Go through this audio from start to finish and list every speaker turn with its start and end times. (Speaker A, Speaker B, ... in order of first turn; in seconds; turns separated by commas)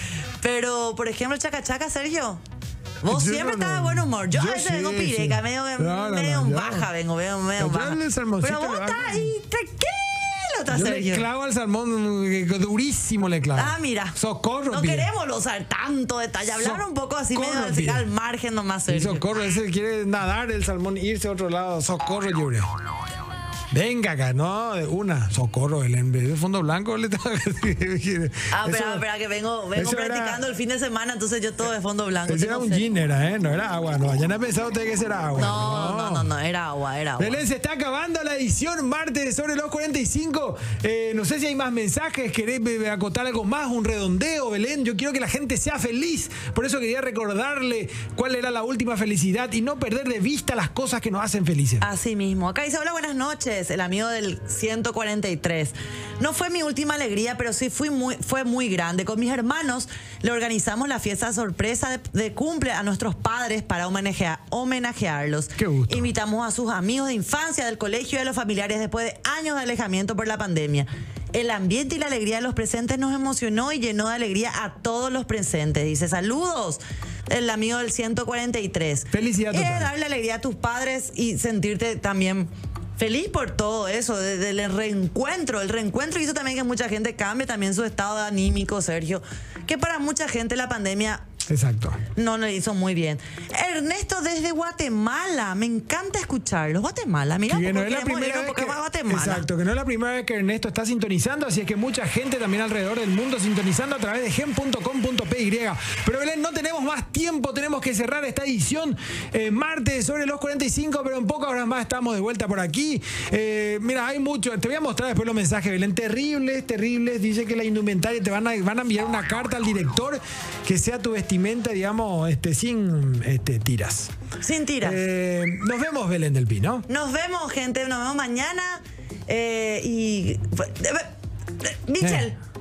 Speaker A: 0.4-2.4, Speaker A: 3.0-11.3, Speaker B: 3.1-6.9, Speaker B: 7.6-9.3, Speaker B: 10.7-15.1, Speaker A: 13.6-14.2, Speaker A: 14.7-19.3, Speaker B: 16.5-18.1, Speaker B: 18.9-22.7, Speaker B: 23.7-29.1, Speaker A: 28.5-32.8, Speaker B: 29.8-30.4, Speaker B: 32.3-36.3, Speaker A: 35.4-37.4, Speaker B: 37.2-51.9, Speaker A: 51.8-91.3, Speaker B: 65.6-66.1, Speaker B: 79.1-79.9, Speaker B: 91.5-92.0, Speaker A: 92.2-99.5, Speaker B: 97.5-124.1, Speaker A: 124.4-125.0, Speaker B: 124.8-126.9, Speaker A: 126.9-131.1, Speaker A: 131.6-132.4, Speaker B: 132.0-132.3